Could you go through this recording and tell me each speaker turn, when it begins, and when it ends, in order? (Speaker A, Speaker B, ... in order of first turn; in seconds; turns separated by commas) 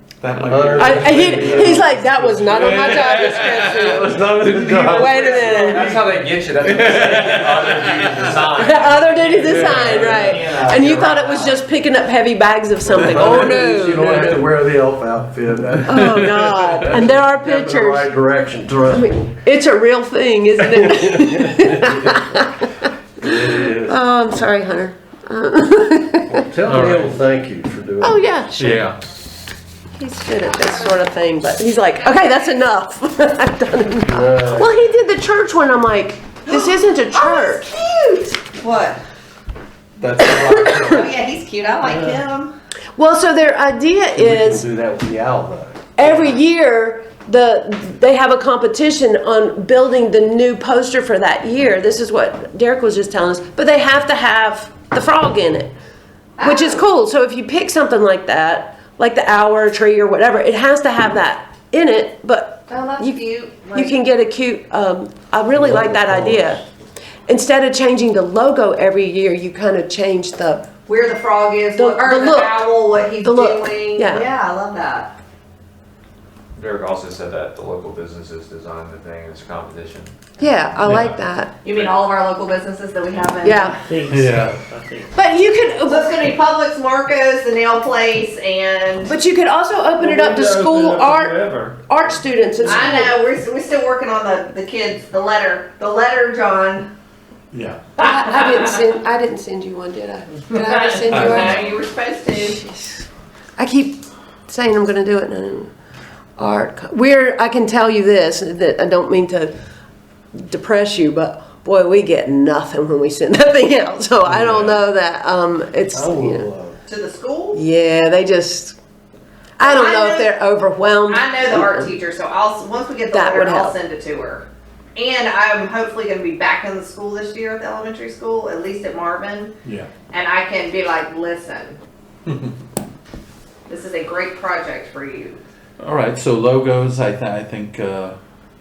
Speaker A: 0.2-1.9, Speaker B: 0.4-6.2, Speaker C: 0.8-4.2, Speaker A: 2.5-5.2, Speaker C: 4.9-6.0, Speaker D: 5.2-11.6, Speaker A: 6.7-8.4, Speaker C: 8.4-14.3, Speaker B: 12.9-19.3, Speaker C: 15.9-18.1, Speaker C: 18.9-22.9, Speaker B: 21.2-22.2, Speaker B: 23.2-24.0, Speaker C: 23.7-26.4, Speaker B: 26.3-28.2, Speaker A: 26.6-27.2, Speaker C: 28.0-28.9, Speaker A: 28.6-29.0, Speaker C: 29.9-37.7, Speaker B: 34.0-34.7, Speaker E: 36.4-39.0, Speaker A: 40.0-41.1, Speaker C: 40.2-40.9, Speaker E: 40.8-42.5, Speaker C: 43.0-44.6, Speaker B: 44.1-45.9, Speaker C: 46.0-55.7, Speaker E: 56.4-56.9, Speaker C: 56.4-63.2, Speaker E: 62.7-63.9, Speaker C: 63.7-66.6, Speaker B: 65.6-66.6, Speaker C: 67.3-70.7, Speaker E: 70.8-75.1, Speaker C: 71.7-74.3, Speaker D: 76.5-80.1, Speaker C: 80.4-81.6, Speaker F: 80.8-81.1, Speaker E: 81.6-83.8, Speaker D: 81.7-82.0, Speaker C: 83.4-83.8, Speaker F: 83.8-85.2, Speaker B: 84.1-84.5, Speaker C: 85.1-86.2, Speaker E: 85.8-89.2, Speaker C: 89.0-91.3, Speaker F: 90.0-93.1, Speaker C: 91.9-93.2, Speaker E: 92.6-96.9, Speaker A: 97.5-98.0, Speaker C: 98.0-101.6, Speaker E: 100.6-102.7, Speaker A: 101.0-101.8, Speaker C: 103.6-105.7, Speaker C: 106.4-109.5, Speaker C: 110.3-116.5, Speaker B: 114.3-114.8, Speaker B: 115.9-116.8, Speaker E: 116.9-117.6, Speaker C: 117.5-118.8, Speaker C: 119.6-121.4, Speaker E: 119.6-120.3, Speaker E: 121.1-129.5, Speaker C: 123.1-123.8, Speaker A: 129.6-130.0, Speaker E: 130.0-131.8, Speaker A: 132.2-132.5, Speaker E: 133.7-135.4, Speaker A: 135.8-138.2